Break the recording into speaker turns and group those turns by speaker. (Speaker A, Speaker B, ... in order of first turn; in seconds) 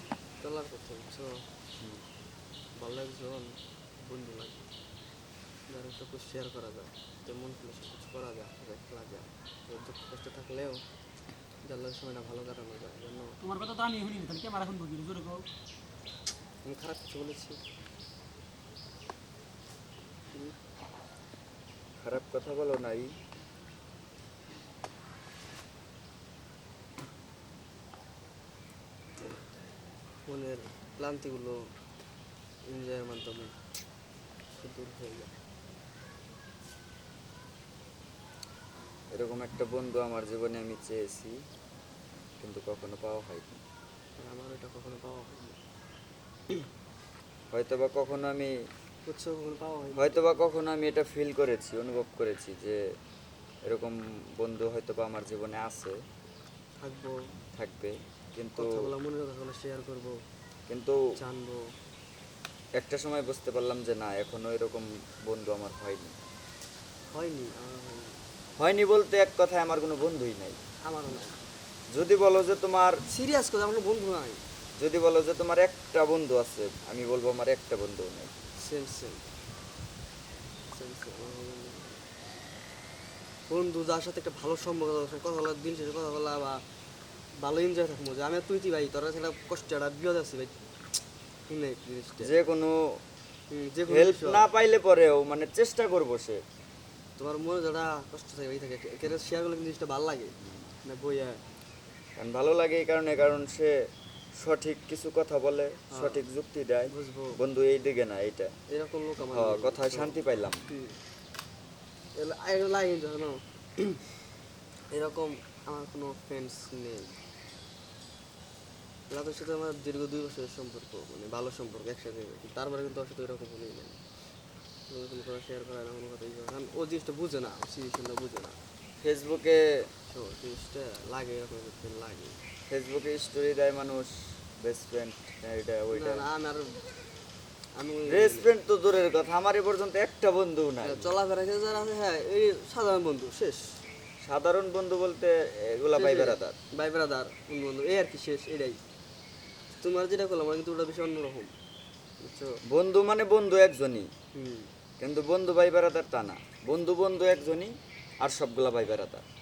Speaker A: 0.4-1.5, 2.8-4.7, 5.7-10.8, 11.6-13.4, 16.6-17.6, 30.3-31.7, 32.7-33.6, 34.5-35.4, 44.2-45.6, 49.0-50.3, 56.8-57.2, 58.5-60.2, 61.2-61.8, 67.1-68.2, 70.9-71.5, 73.0-74.4, 78.6-79.3, 80.7-82.1, 83.5-86.6, 87.4-90.6, 91.5-92.3, 93.5-94.5, 97.2-101.4, 105.9-106.2, 106.9-107.4, 108.7-111.0, 112.2-114.1, 114.9-117.2, 119.1-124.0, 124.9-128.6, 130.1-132.4, 135.9-136.9, 137.8-138.5, 140.8-143.8, 146.0-148.8, 149.8-151.5, 152.2-152.6, 154.3-154.7
Speaker B: 13.4-15.5
Speaker C: 22.0-23.1, 39.1-41.4, 42.4-43.6, 47.5-48.5, 50.0-52.8, 53.7-56.0, 57.6-58.8, 60.7-61.0, 62.8-66.2, 68.6-70.6, 71.9-73.0, 74.8-78.3, 92.2-93.0, 93.9-96.4, 102.2-103.8, 104.3-108.5, 109.3-110.7, 129.0-129.6, 132.7-136.2, 138.1-141.1, 144.2-146.6, 152.7-154.1, 155.0-159.2